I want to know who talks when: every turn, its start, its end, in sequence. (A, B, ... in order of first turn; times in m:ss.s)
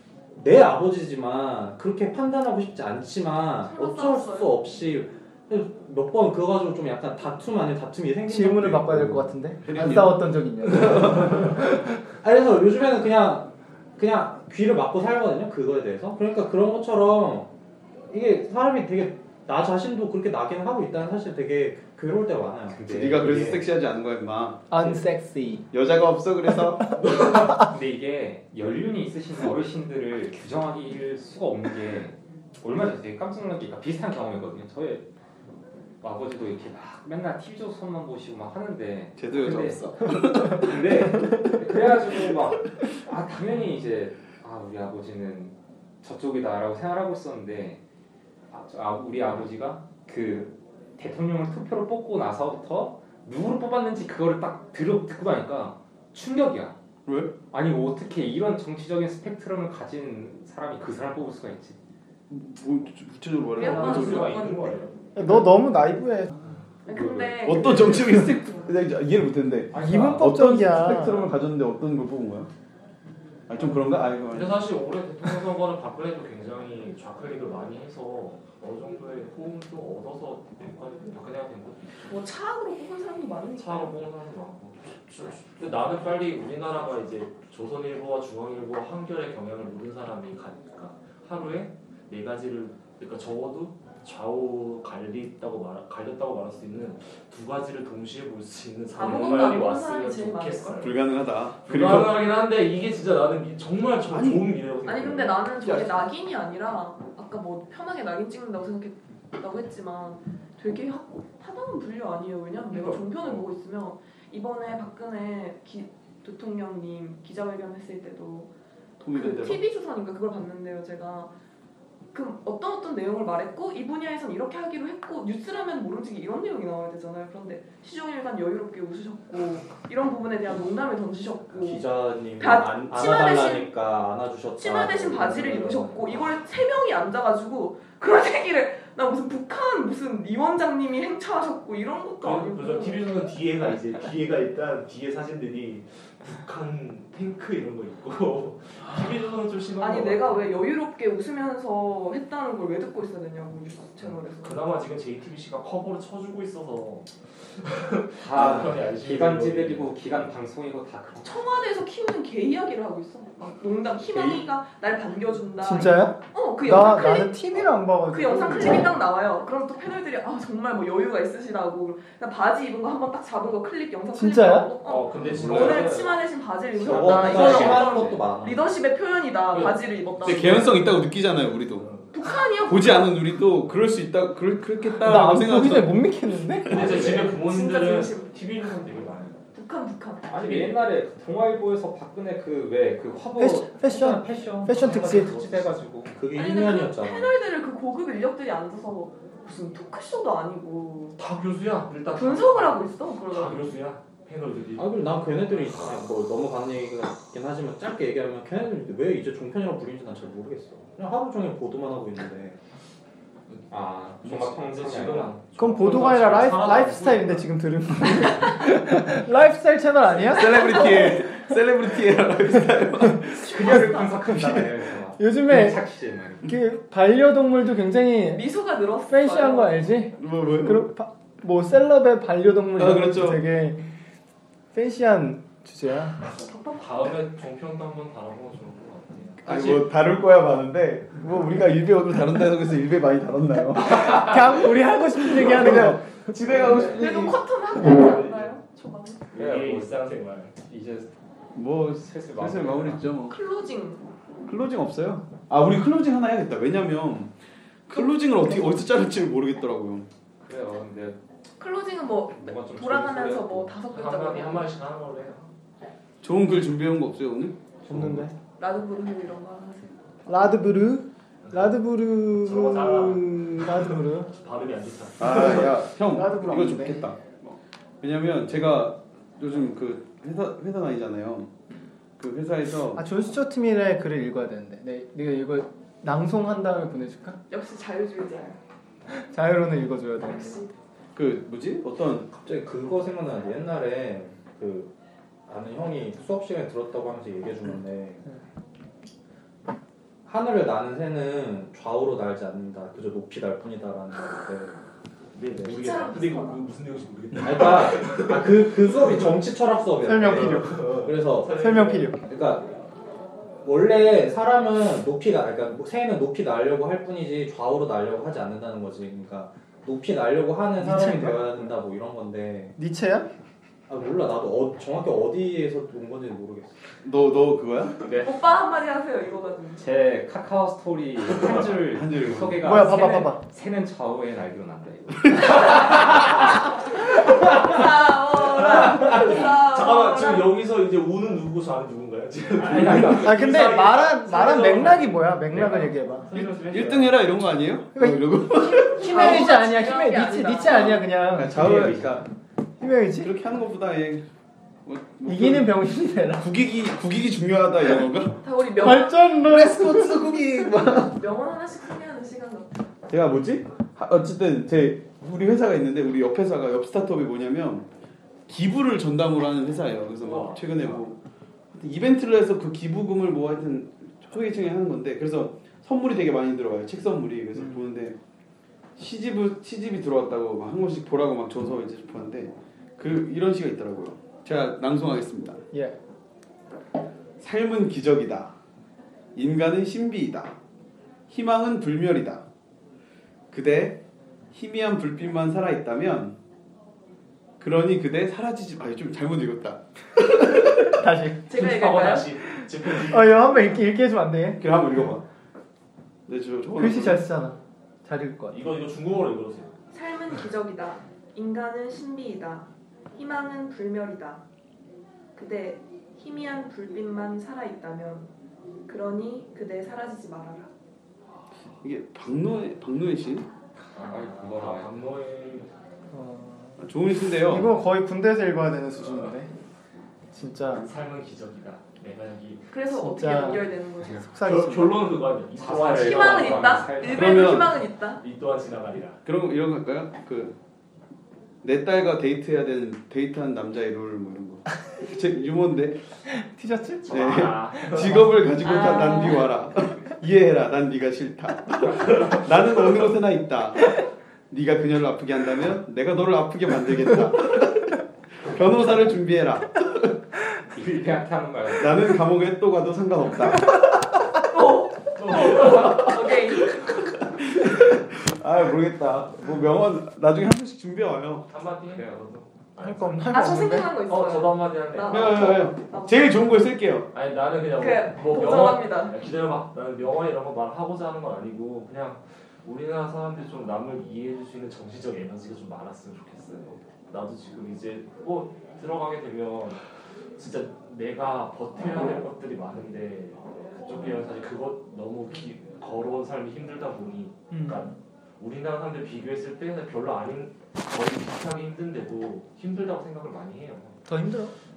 0:00.3-0:09.3 A
0:03.6-0:04.6 B
0:08.3-0:11.4 C
0:09.6-0:10.2 D
0:10.8-0:11.3 D
0:12.2-0:17.5 A
0:18.1-0:22.8 A
0:22.7-0:23.6 E
0:22.9-0:24.7 D
0:24.7-0:25.7 C
0:25.7-0:27.0 D
0:27.3-0:35.1 E
0:36.0-0:47.8 E
0:39.2-0:41.1 D
0:48.5-0:56.8 E
0:57.1-0:57.4 D
0:57.5-1:01.8 E
1:02.3-1:04.4 D
1:03.5-1:04.9 B
1:03.6-1:05.5 F
1:05.1-1:06.4 C
1:06.8-1:08.9 B
1:07.0-1:07.3 E
1:07.4-1:12.5 D
1:09.7-1:10.4 E
1:09.7-1:11.3 C
1:13.5-1:14.7 D
1:13.6-1:22.2 F
1:22.1-1:24.0 B
1:23.6-1:41.0 F
1:38.9-1:40.8 B
1:40.8-1:42.3 D
1:41.6-1:45.5 F
1:44.1-1:44.6 D
1:44.8-1:58.5 B
1:45.6-1:46.1 D
1:52.7-1:53.5 F
1:59.0-1:59.6 D
1:59.1-2:01.3 B
2:02.1-2:11.8 B
2:11.6-2:16.0 A
2:12.4-2:13.7 B
2:14.6-2:23.4 B
2:15.7-2:16.2 F
2:22.2-2:30.7 F
2:29.8-2:34.6 B
2:34.0-2:40.3 F
2:38.2-2:41.3 E
2:38.3-2:38.7 D
2:41.2-2:47.5 B
2:45.6-2:48.9 C
2:48.0-3:00.7 B
2:54.1-2:54.7 C
2:54.8-2:56.2 F
2:55.2-2:56.1 E
2:55.2-2:55.6 D
2:56.8-2:58.7 A
2:56.8-2:58.2 F
2:57.2-2:57.9 E
2:59.5-3:00.7 F
3:00.2-3:01.9 D
3:01.8-3:02.1 F
3:02.1-3:03.2 B
3:02.6-3:06.0 D
3:05.0-3:07.0 C
3:06.6-3:07.2 D
3:06.6-3:09.4 F
3:06.8-3:08.4 B
3:09.5-3:10.4 B
3:10.3-3:16.1 E
3:10.4-3:10.8 F
3:13.4-3:15.3 C
3:14.7-3:15.8 F
3:16.1-3:17.3 A
3:16.4-3:21.2 B
3:21.2-3:25.4 F
3:22.1-3:23.8 B
3:24.8-3:32.6 A
3:33.7-3:35.4 E
3:34.2-3:37.5 F
3:35.6-3:40.8 C
3:40.2-3:44.7 D
3:43.4-3:46.5 E
3:45.2-3:45.8 C
3:46.4-3:48.4 C
3:48.3-3:50.1 B
3:49.0-3:53.9 C
3:50.1-3:50.9 D
3:52.8-3:53.4 D
3:54.7-3:56.2 C
3:56.3-3:56.9 B
3:56.7-3:59.8 F
3:59.4-4:04.4 D
4:03.8-4:06.3 C
4:05.2-4:07.4 D
4:06.4-4:07.2 F
4:06.6-4:09.3 B
4:07.8-4:08.5 F
4:09.3-4:10.5 F
4:09.4-4:11.1 E
4:11.5-4:13.4 D
4:12.0-4:13.1 E
4:13.3-4:14.1 B
4:14.5-4:17.3 D
4:17.9-4:20.1 D
4:20.4-4:21.2 E
4:21.6-4:24.7 B
4:22.4-4:23.7 E
4:23.9-4:25.5 F
4:26.2-4:28.3 D
4:27.9-4:28.3 C
4:28.6-4:30.4 B
4:30.3-4:34.3 C
4:31.4-4:31.8 F
4:32.4-4:35.8 F
4:35.2-4:41.5 D
4:36.1-4:37.1 C
4:42.2-4:43.0 D
4:42.9-4:47.4 C
4:47.5-4:48.6 B
4:49.1-4:50.6 C
4:51.1-4:52.3 D
4:52.3-4:54.9 A
4:55.5-4:58.2 A
5:00.2-5:04.8 A
5:05.3-5:09.4 F
5:05.6-5:06.7 B
5:07.4-5:11.6 A
5:10.0-5:10.8 C
5:10.2-5:12.1 F
5:11.5-5:12.2 C
5:12.2-5:12.7 A
5:13.6-5:22.7 A
5:20.8-5:21.5 C
5:22.8-5:23.3 C
5:23.9-5:26.7 A
5:27.0-5:28.1 D
5:28.0-5:28.4 E
5:28.2-5:29.9 B
5:29.8-5:35.9 E
5:31.4-5:32.7 D
5:32.6-5:33.4 C
5:37.2-5:40.6 B
5:38.4-5:47.6 F
5:42.7-5:43.2 E
5:42.8-5:43.2 D
5:43.1-5:46.3 C
5:46.4-5:49.4 D
5:47.9-5:52.0 C
5:49.0-5:51.1 B
5:51.3-5:52.2 D
5:51.5-5:52.2 A
5:52.8-5:53.3 C
5:53.2-5:54.2 D
5:54.9-5:55.8 D
5:55.2-5:56.5 C
5:56.4-5:58.4 D
5:58.4-5:59.4 B
5:58.8-6:00.8 C
5:59.4-6:01.2 D
6:01.1-6:02.9 B
6:03.1-6:07.9 D
6:08.5-6:11.2 D
6:10.1-6:11.1 F
6:11.7-6:18.2 D
6:19.0-6:25.6 D
6:27.4-6:28.6 D
6:29.4-6:30.6 D
6:31.3-6:32.4 D
6:33.5-6:34.0 D
6:34.5-6:36.4 D
6:37.6-6:40.9 D
6:40.9-6:41.5 C
6:41.5-6:42.3 B
6:41.5-6:43.8 F
6:42.9-6:44.6 C
6:44.6-6:45.2 D
6:46.3-6:47.2 D
6:46.8-6:48.6 C
6:48.5-6:49.8 F
6:49.9-6:54.4 B
6:55.4-6:58.3 B
6:58.9-7:00.7 B
7:01.8-7:03.5 D
7:03.9-7:05.7 F
7:04.0-7:04.9 E
7:06.1-7:06.8 C
7:06.8-7:07.7 D
7:07.4-7:09.5 C
7:10.3-7:10.9 C
7:10.7-7:12.7 F
7:12.7-7:14.4 B
7:12.9-7:15.2 C
7:14.4-7:17.6 F
7:15.6-7:17.5 E
7:15.9-7:18.2 B
7:17.1-7:17.8 D
7:18.2-7:19.2 F
7:19.2-7:20.6 D
7:21.6-7:26.0 D
7:26.3-7:27.2 C
7:27.1-7:28.4 F
7:27.1-7:34.0 D
7:28.6-7:29.6 B
7:32.1-7:32.4 F
7:34.5-7:40.1 D
7:40.7-7:42.0 E
7:41.8-7:43.9 D
7:44.5-7:46.8 B
7:45.1-7:46.2 F
7:45.6-7:46.6 D
7:47.4-7:51.5 D
7:51.5-7:55.6 F
7:51.9-7:52.2 E
7:52.8-7:54.0 C
7:53.3-7:56.5 B
7:55.1-7:57.1 D
7:57.1-8:09.8 F
7:57.8-7:59.2 B
8:10.4-8:24.0 F
8:17.5-8:17.9 C
8:24.1-8:24.5 C